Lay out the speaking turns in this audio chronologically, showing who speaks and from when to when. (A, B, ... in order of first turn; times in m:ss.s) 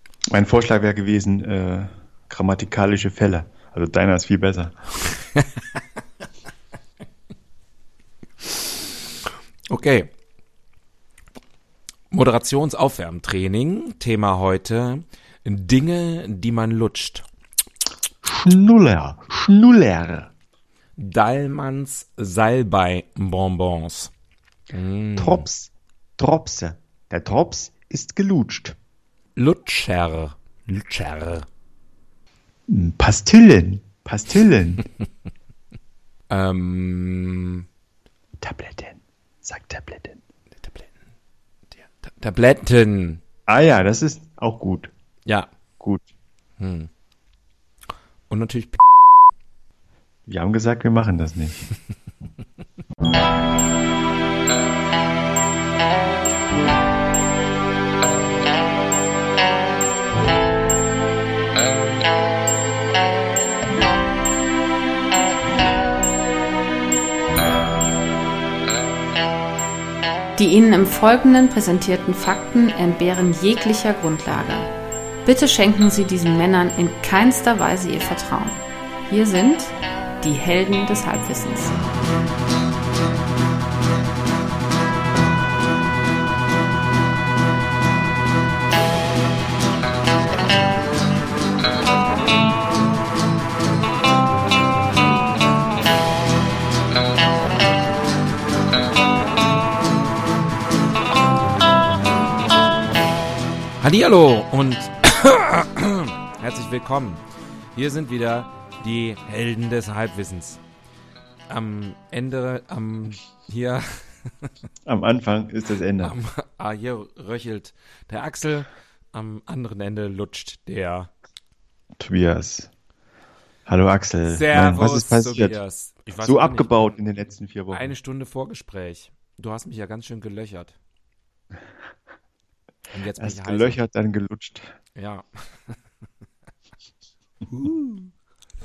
0:00.3-0:04.8 A
0:09.7-0:10.1 B
0:12.1-0:17.3 B
0:18.2-0:20.3 A
0:21.0-0:24.1 B
0:24.7-0:25.5 B
0:25.2-0:28.8 A
0:29.4-0:31.5 B
0:32.7-0:34.8 A
0:36.3-0:37.7 B
0:38.4-0:40.2 A
0:40.6-0:40.9 B
0:41.7-0:43.2 B
0:43.5-0:44.9 A
0:46.6-0:46.9 B
0:48.3-0:48.9 B
0:50.3-0:51.7 A
1:10.4-1:14.7 C
1:15.2-1:21.8 C
1:43.8-1:47.2 B
1:47.8-1:50.6 B
1:51.5-1:54.5 B
1:54.9-1:56.2 A
1:56.0-2:01.1 B
2:02.0-2:02.7 A
2:03.7-2:05.6 A
2:04.3-2:07.0 B
2:06.2-2:07.9 A
2:07.7-2:10.8 B
2:12.9-2:13.8 B
2:13.2-2:14.7 A
2:15.0-2:15.8 B
2:17.5-2:18.1 B